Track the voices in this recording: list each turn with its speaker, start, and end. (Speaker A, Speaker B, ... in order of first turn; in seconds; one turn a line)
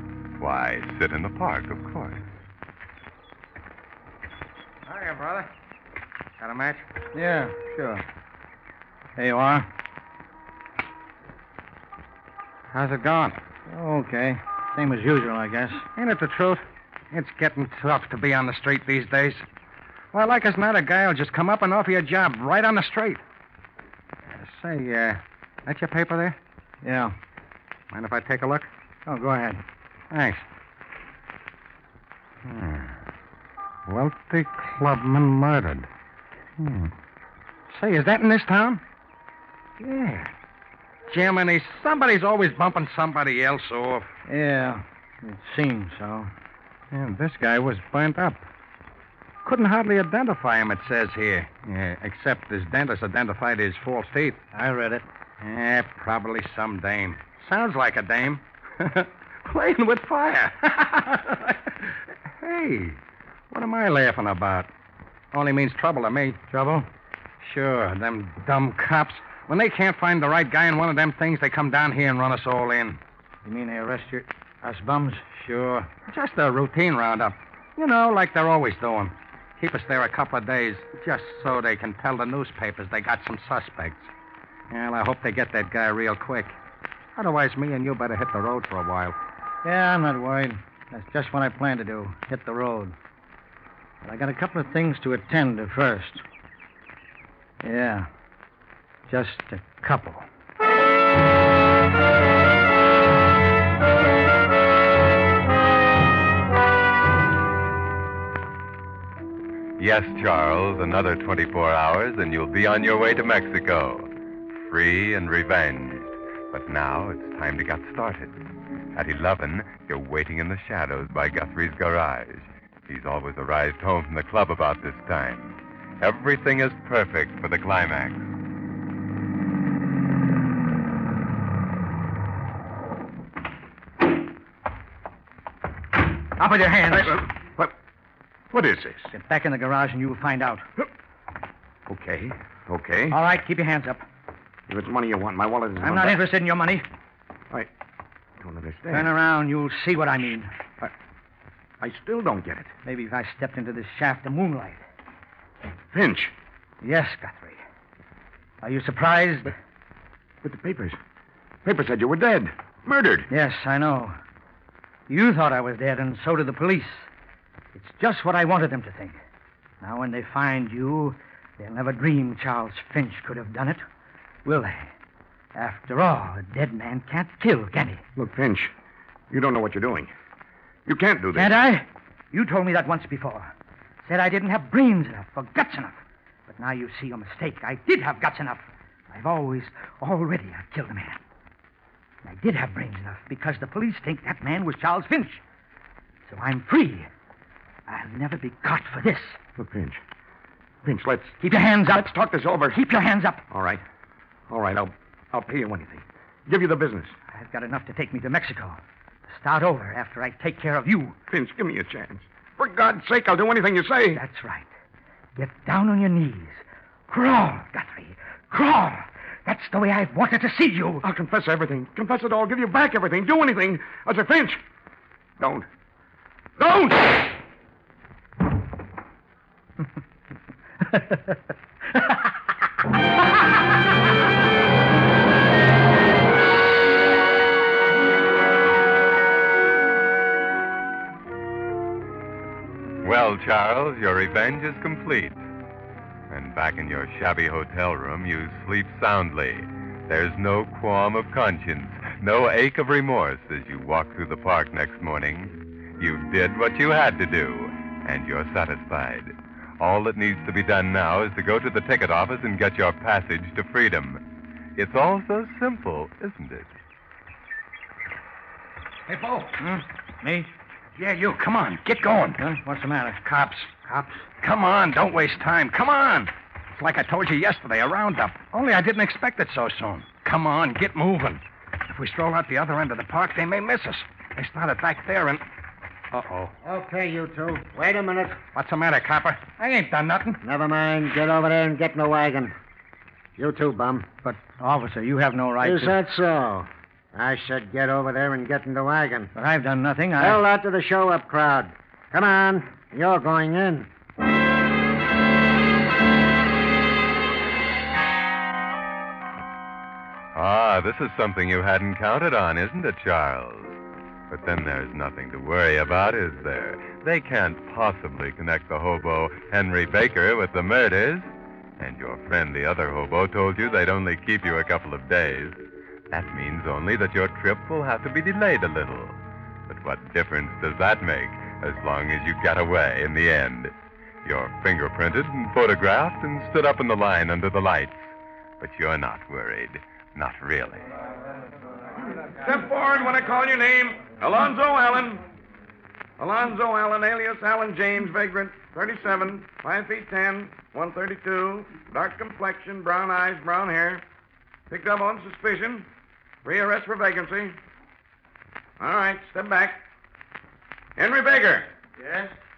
Speaker A: 0.4-2.2
Speaker B: 4.9-5.5
Speaker B: 6.4-6.9
Speaker C: 7.1-8.0
Speaker C: 9.2-9.7
Speaker B: 12.7-13.4
Speaker C: 13.7-15.9
Speaker B: 15.9-19.4
Speaker B: 20.1-23.2
Speaker B: 24.3-26.4
Speaker C: 26.8-27.1
Speaker B: 27.9-28.7
Speaker C: 29.1-29.6
Speaker B: 30.1-30.4
Speaker B: 32.4-33.0
Speaker B: 33.9-35.9
Speaker B: 36.6-36.9
Speaker B: 37.7-38.8
Speaker B: 39.8-40.3
Speaker B: 41.1-44.1
Speaker C: 44.3-46.3
Speaker B: 46.9-48.4
Speaker B: 49.4-54.4
Speaker C: 54.5-55.0
Speaker B: 55.4-63.0
Speaker B: 63.5-64.7
Speaker B: 65.3-66.4
Speaker C: 66.5-66.8
Speaker B: 67.4-73.0
Speaker C: 73.4-75.9
Speaker B: 75.9-84.1
Speaker B: 84.7-86.5
Speaker B: 87.2-89.2
Speaker C: 89.6-92.9
Speaker C: 94.0-96.2
Speaker C: 97.6-98.1
Speaker C: 99.1-100.2
Speaker A: 109.8-118.4
Speaker A: 118.9-128.3
Speaker C: 136.4-137.2
Speaker D: 136.9-137.7
Speaker D: 138.5-139.1
Speaker C: 139.1-140.7
Speaker D: 141.9-143.2
Speaker C: 143.1-144.0
Speaker D: 144.7-146.2
Speaker C: 145.8-146.8
Speaker D: 148.4-149.1
Speaker C: 148.9-150.5
Speaker D: 151.8-152.7
Speaker C: 152.8-154.8
Speaker D: 155.9-156.3
Speaker C: 156.8-157.6
Speaker C: 158.6-159.5
Speaker D: 160.4-161.0
Speaker D: 161.6-163.3
Speaker C: 163.3-164.2
Speaker C: 165.1-167.1
Speaker C: 167.7-169.2
Speaker C: 169.8-173.8
Speaker C: 174.4-174.9
Speaker C: 175.5-178.0
Speaker D: 178.2-178.7
Speaker D: 179.3-180.1
Speaker D: 180.8-181.5
Speaker C: 181.3-183.5
Speaker C: 184.0-191.2
Speaker C: 192.2-195.4
Speaker C: 196.3-197.1
Speaker C: 197.9-199.4
Speaker D: 199.6-200.0
Speaker D: 200.8-202.8
Speaker C: 201.4-202.1
Speaker C: 202.7-203.4
Speaker D: 203.5-203.8
Speaker D: 204.5-207.1
Speaker C: 207.3-208.8
Speaker C: 209.3-211.1
Speaker D: 211.3-214.2
Speaker C: 214.1-214.7
Speaker C: 215.3-221.1
Speaker D: 221.0-224.6
Speaker D: 225.4-225.7
Speaker D: 226.6-227.2
Speaker A: 243.0-245.4
Speaker A: 246.3-264.2
Speaker A: 264.8-266.7
Speaker C: 269.5-270.5
Speaker B: 270.9-272.4
Speaker C: 272.4-273.2
Speaker B: 273.2-273.7
Speaker C: 273.8-274.2
Speaker B: 274.4-285.4
Speaker B: 286.1-286.5
Speaker E: 286.6-288.4
Speaker B: 288.5-290.4
Speaker E: 290.4-292.5
Speaker E: 293.4-294.1
Speaker C: 294.2-296.0
Speaker E: 295.6-299.3
Speaker C: 299.3-300.4
Speaker E: 300.2-303.9
Speaker A: 310.3-313.8
Speaker A: 314.3-340.9
Speaker D: 342.2-345.2
Speaker D: 346.2-354.0
Speaker D: 354.7-355.9
Speaker D: 356.4-357.6
Speaker D: 358.8-359.8
Speaker D: 360.9-361.7
Speaker C: 362.0-362.4